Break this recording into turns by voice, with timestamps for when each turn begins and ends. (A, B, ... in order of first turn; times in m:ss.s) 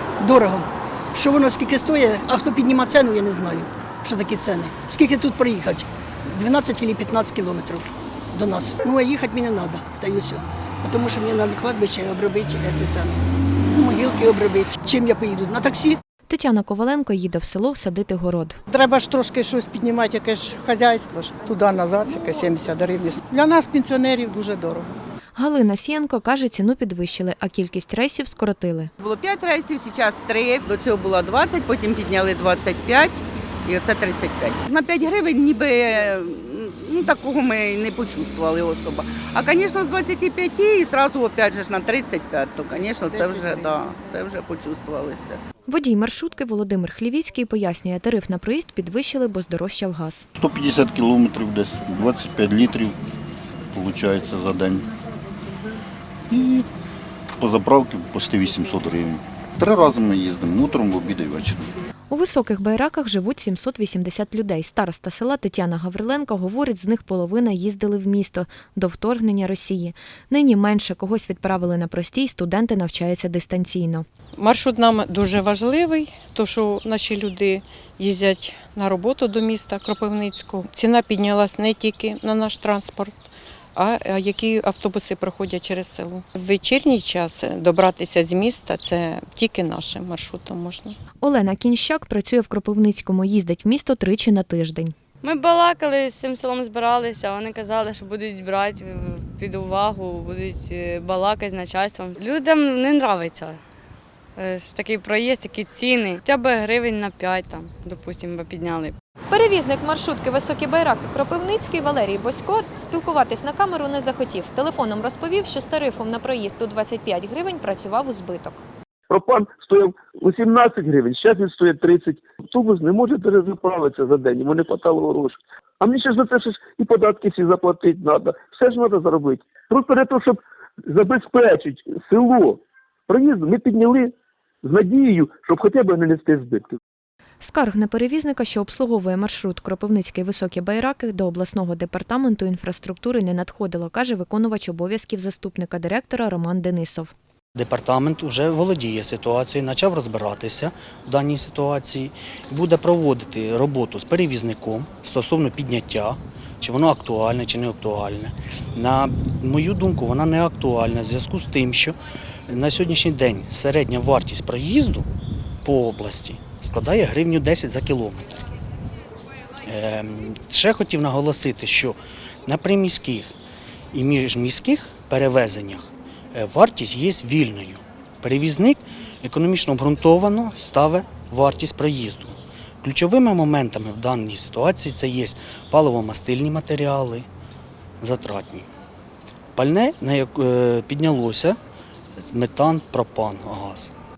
0:00.2-0:13.2 A
0:13.7-0:16.0 A
0:16.3-0:18.6 B
0:18.7-0:24.9 C
0:25.4-0:28.9 B
0:29.0-0:45.4 D
0:45.7-0:50.3 B
0:50.4-0:53.0 E
0:53.7-0:54.9 E
0:56.3-0:56.7 E
0:57.4-1:01.7 E
1:02.1-1:14.0 B
1:14.4-1:23.2 F
1:23.8-1:31.0 F
1:31.2-1:34.9 B
1:35.2-1:43.6 G
1:44.4-1:49.0 G
1:49.3-1:58.6 B
1:59.1-2:16.8 H
2:17.4-2:27.1 B
2:27.6-2:42.0 I
2:42.5-2:45.1 I
2:45.6-2:48.4 I
2:49.6-2:53.3 I
2:53.9-3:07.3 I
3:08.0-3:08.7 I
3:09.6-3:11.6 I
3:12.3-3:13.9 I